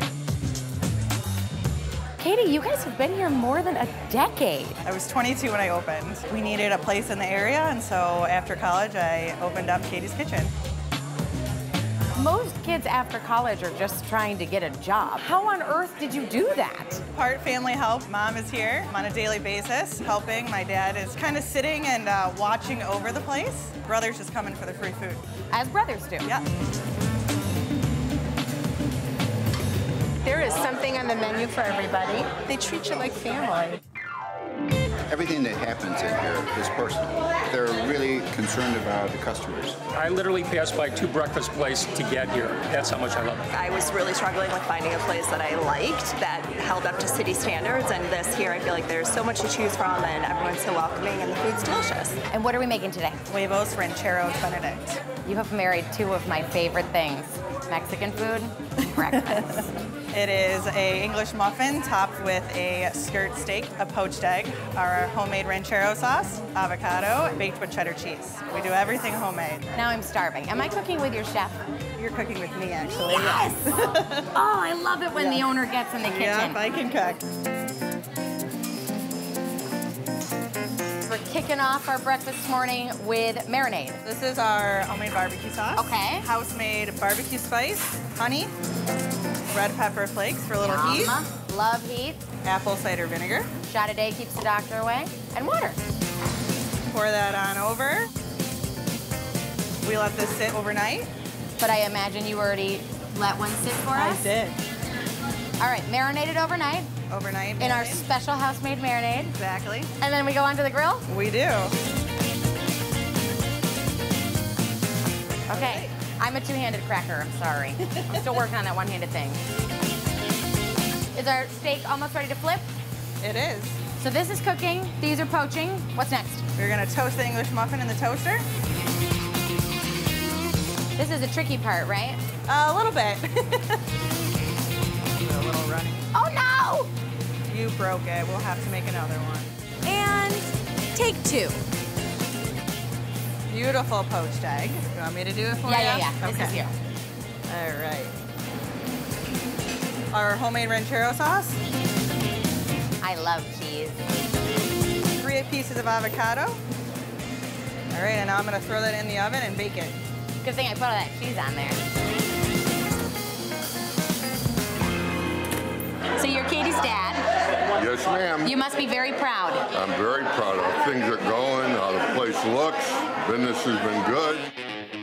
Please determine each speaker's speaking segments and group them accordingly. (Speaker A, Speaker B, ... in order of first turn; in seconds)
Speaker A: 2.2-4.8, 12.2-17.0, 25.5-26.3, 52.3-53.2, 55.2-59.7, 69.7-71.6, 72.8-73.8, 74.3-76.6, 81.0-84.0, 85.8-86.3, 90.6-92.2, 93.6-95.8, 101.6-104.2, 105.6-106.9, 107.6-109.3, 110.0-111.0, 115.5-119.4, 121.1-122.7, 124.0-126.4, 130.9-132.2, 136.1-136.9, 139.8-141.6, 145.6-146.7, 153.0-154.0, 160.4-161.8, 166.1-167.2, 168.4-169.7
Speaker B: 4.8-10.5, 17.1-25.2, 53.3-55.0, 60.1-69.6, 72.0-74.2, 75.1-75.5, 76.0-77.2, 84.0-88.5, 89.5-91.2, 92.4-93.5, 96.9-98.1, 99.8-101.1, 103.9-104.6, 107.1-108.0, 109.3-109.9, 111.1-111.7, 115.5-115.9, 123.2-123.8, 126.6-128.4, 132.5-133.8, 135.2-136.1, 137.5-139.5, 143.5-146.6, 147.5-148.1, 150.1-151.6, 155.2-156.6, 157.9-160.0
Speaker C: 30.4-33.5
Speaker D: 35.1-39.8
Speaker E: 39.9-43.4
Speaker F: 43.5-52.2
Speaker G: 167.7-168.6, 169.7-174.5